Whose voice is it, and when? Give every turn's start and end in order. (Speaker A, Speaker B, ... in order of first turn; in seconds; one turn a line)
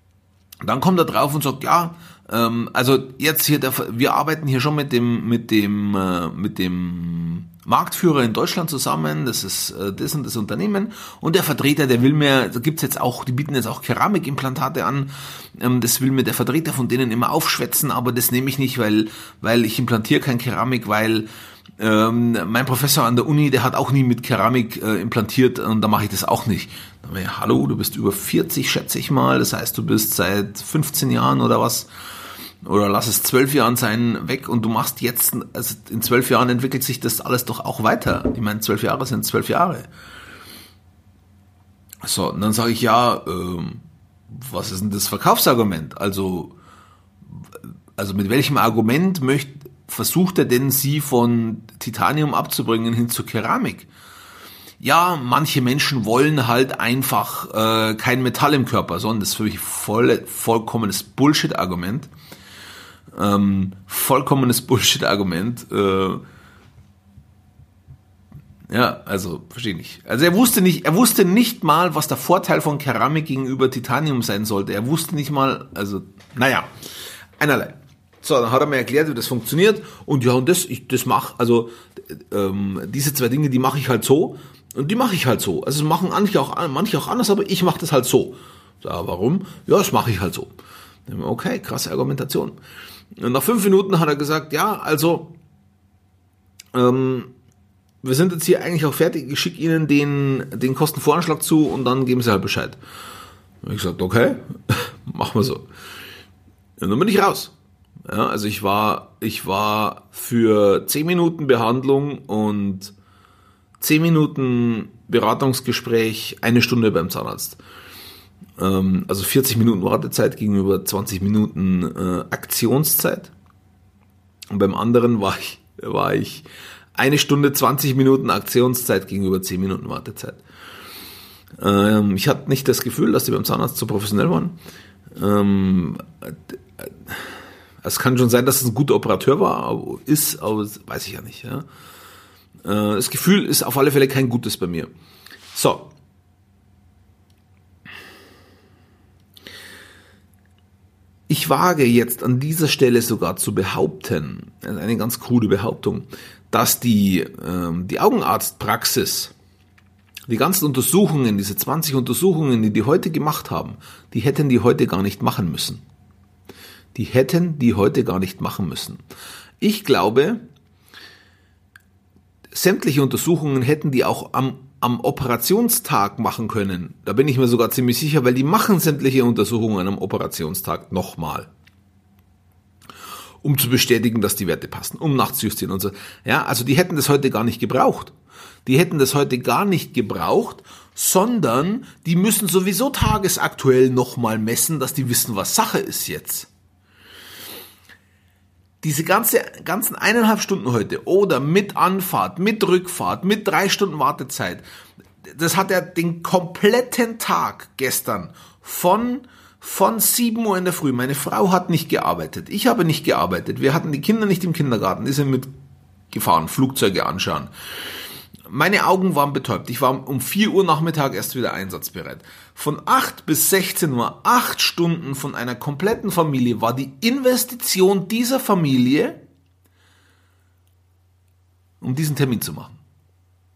Speaker A: 0.6-21.3
Speaker A: 21.8-31.9
Speaker A: 32.6-39.9
Speaker A: 42.0-46.5
Speaker A: 48.0-53.9
Speaker A: 54.8-62.1
Speaker A: 63.1-66.2
Speaker A: 68.7-76.7
Speaker A: 77.4-90.5
Speaker A: 91.1-92.6
Speaker A: 93.2-95.3
Speaker A: 96.7-97.3
Speaker A: 98.0-102.8
Speaker A: 103.6-105.7
Speaker A: 106.8-107.5
Speaker A: 108.1-112.9
Speaker A: 113.8-117.6
Speaker A: 118.6-123.3
Speaker A: 124.5-130.4
Speaker A: 131.6-134.6
Speaker A: 135.2-137.3
Speaker A: 137.8-141.7
Speaker A: 142.6-144.9
Speaker A: 145.5-145.9
Speaker A: 151.3-159.3
Speaker A: 160.3-165.8
Speaker A: 166.9-169.0
Speaker A: 169.6-170.4
Speaker A: 172.5-181.5
Speaker A: 183.4-188.1
Speaker A: 188.7-196.5
Speaker A: 198.8-204.6
Speaker A: 205.2-215.5
Speaker A: 216.1-217.5
Speaker A: 218.5-229.2
Speaker A: 231.8-232.8